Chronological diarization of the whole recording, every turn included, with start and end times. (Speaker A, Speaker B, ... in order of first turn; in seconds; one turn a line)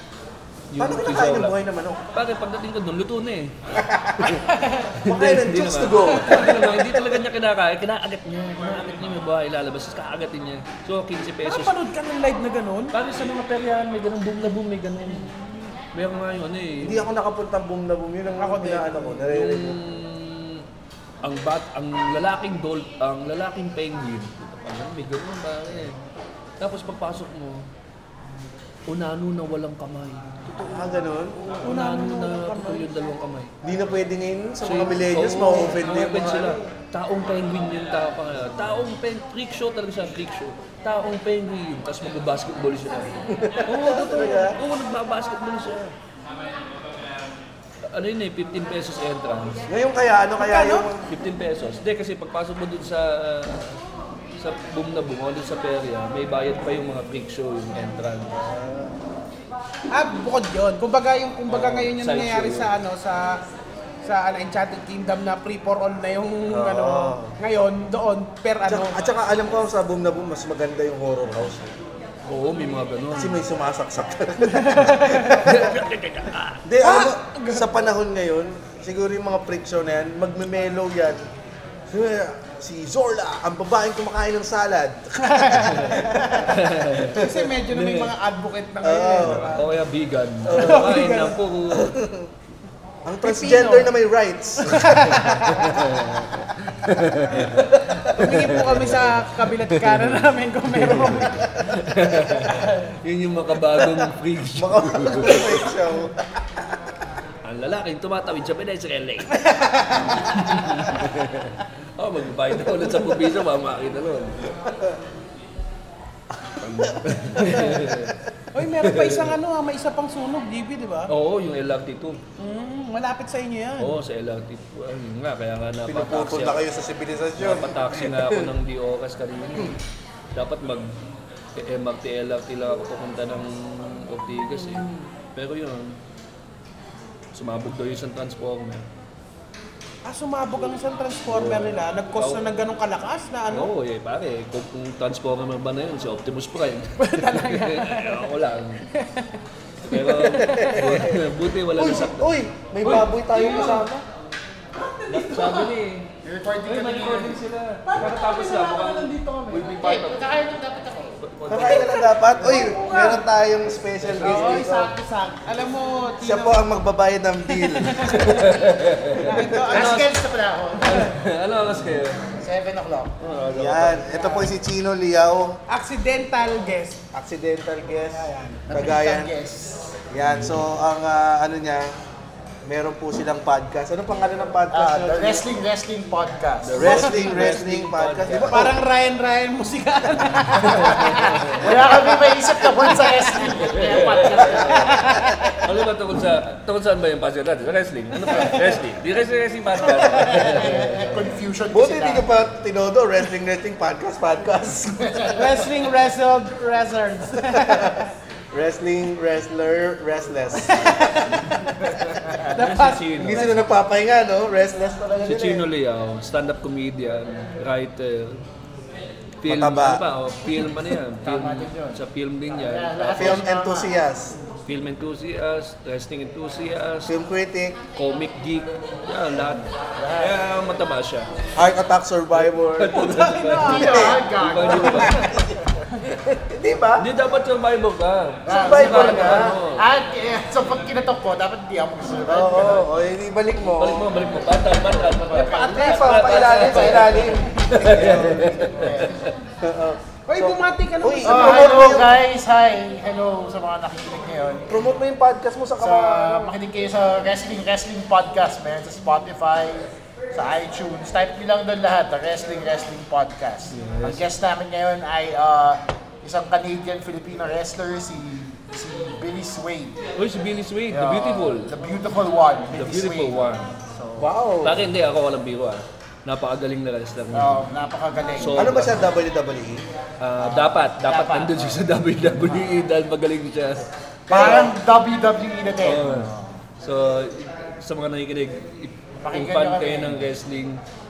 Speaker A: 0.7-1.6
Speaker B: 0.8-2.0
Speaker A: 2.1-3.5
Speaker B: 3.7-4.4
Speaker C: 4.5-4.9
Speaker A: 5.0-11.7
Speaker B: 5.0-7.0
Speaker C: 6.2-6.5
Speaker C: 11.4-12.9
Speaker A: 12.9-15.3
Speaker C: 15.0-15.7
Speaker A: 15.9-17.0
Speaker B: 16.8-19.8
Speaker C: 18.4-19.2
Speaker A: 19.2-20.6
Speaker A: 21.2-26.0
Speaker A: 26.6-27.6
Speaker A: 28.9-33.5
Speaker B: 30.6-31.4
Speaker C: 31.6-32.9
Speaker B: 33.6-36.6
Speaker A: 34.6-43.1
Speaker B: 43.3-44.6
Speaker A: 43.6-45.9
Speaker A: 47.9-49.6
Speaker B: 49.7-51.1
Speaker C: 50.4-50.9
Speaker A: 51.1-53.8
Speaker A: 54.4-58.4
Speaker B: 58.3-59.0
Speaker C: 59.9-63.4
Speaker A: 61.5-62.7
Speaker C: 64.0-69.0
Speaker B: 66.5-67.3
Speaker B: 68.7-71.7
Speaker A: 72.2-73.4
Speaker B: 73.1-75.7
Speaker C: 74.4-75.5
Speaker A: 75.4-76.6
Speaker B: 76.6-81.2
Speaker C: 76.8-77.7
Speaker B: 81.9-87.5
Speaker C: 85.2-86.5
Speaker A: 85.7-88.1
Speaker C: 87.1-89.6
Speaker B: 88.8-89.6
Speaker A: 89.2-92.0
Speaker B: 90.4-92.3
Speaker C: 90.5-91.4
Speaker B: 93.0-95.0
Speaker C: 93.2-93.9
Speaker C: 94.6-95.8
Speaker A: 95.0-99.1
Speaker B: 97.3-98.3
Speaker C: 98.1-101.4
Speaker A: 99.6-100.2
Speaker A: 100.7-105.7
Speaker C: 102.4-102.9
Speaker B: 104.0-106.6
Speaker A: 107.4-109.4
Speaker C: 109.3-110.4
Speaker A: 110.0-114.5
Speaker B: 116.6-118.0
Speaker A: 116.6-118.2
Speaker C: 117.5-117.8
Speaker C: 118.5-121.1
Speaker A: 118.8-119.3
Speaker A: 121.1-122.2
Speaker C: 122.4-124.0
Speaker A: 123.8-126.6
Speaker B: 125.8-128.5
Speaker A: 127.4-129.8
Speaker A: 130.3-130.9
Speaker A: 131.5-136.0
Speaker C: 134.6-135.0
Speaker A: 137.3-138.8
Speaker C: 140.0-143.7
Speaker A: 141.3-142.6
Speaker A: 143.5-148.8
Speaker C: 147.0-148.2
Speaker C: 148.9-149.4
Speaker A: 149.8-153.8
Speaker C: 149.9-150.8
Speaker B: 150.2-154.0
Speaker C: 152.9-153.8
Speaker C: 154.8-155.7
Speaker A: 155.1-156.1
Speaker D: 156.2-157.4
Speaker A: 156.6-160.2
Speaker C: 157.8-159.7
Speaker D: 159.6-161.2
Speaker A: 161.2-162.0
Speaker B: 161.5-164.9
Speaker C: 161.7-163.2
Speaker A: 164.0-164.6
Speaker C: 164.2-166.7
Speaker B: 166.2-169.7
Speaker C: 167.5-168.6
Speaker A: 168.1-170.1
Speaker C: 169.1-170.1
Speaker D: 169.7-171.1
Speaker A: 170.8-172.2
Speaker D: 172.4-173.1
Speaker A: 173.2-174.3
Speaker B: 173.5-175.6
Speaker C: 175.7-177.0
Speaker B: 177.1-179.3
Speaker C: 178.2-178.6
Speaker D: 178.6-180.0
Speaker B: 180.1-181.9
Speaker A: 180.2-180.7
Speaker B: 182.6-185.5
Speaker D: 184.7-187.4
Speaker A: 186.6-188.7
Speaker B: 186.7-188.8
Speaker C: 188.5-191.2
Speaker A: 190.6-191.7
Speaker D: 191.6-195.0
Speaker C: 192.8-193.6
Speaker A: 193.5-194.8
Speaker C: 194.5-195.7
Speaker A: 195.6-201.4
Speaker C: 198.3-198.8
Speaker C: 199.8-200.6
Speaker D: 200.4-202.3
Speaker B: 201.7-205.3
Speaker D: 205.0-205.3
Speaker C: 205.3-208.1
Speaker B: 207.5-211.8
Speaker C: 210.6-211.6
Speaker C: 212.5-213.6
Speaker A: 212.5-213.5
Speaker B: 213.2-215.7
Speaker A: 215.2-218.4
Speaker A: 219.4-223.4
Speaker B: 219.4-220.0
Speaker D: 221.2-223.9
Speaker B: 223.2-224.3
Speaker A: 224.7-227.1
Speaker B: 227.1-227.8
Speaker A: 227.9-231.3
Speaker D: 230.0-230.4
Speaker B: 231.6-233.0
Speaker A: 232.4-235.2
Speaker C: 232.9-234.2
Speaker D: 233.6-235.4
Speaker B: 233.8-234.2
Speaker B: 234.8-235.4
Speaker B: 236.4-237.1
Speaker A: 237.0-239.8
Speaker D: 238.4-242.9
Speaker B: 238.5-239.6
Speaker B: 242.2-244.2
Speaker A: 243.8-249.3
Speaker C: 245.3-246.3
Speaker B: 245.6-249.1
Speaker D: 246.2-249.2
Speaker B: 249.6-252.2
Speaker C: 250.3-252.0
Speaker D: 251.2-254.8
Speaker B: 254.7-256.5
Speaker D: 255.8-270.0
Speaker A: 263.7-264.2
Speaker A: 270.2-271.7
Speaker D: 270.9-274.3
Speaker A: 272.7-273.7
Speaker B: 274.2-274.8
Speaker A: 274.6-277.7
Speaker D: 277.3-279.1
Speaker A: 278.4-279.1
Speaker B: 278.5-279.8
Speaker A: 280.2-283.9
Speaker D: 280.4-282.8
Speaker B: 284.3-284.8
Speaker D: 284.3-286.6
Speaker A: 285.8-290.8
Speaker D: 289.2-290.3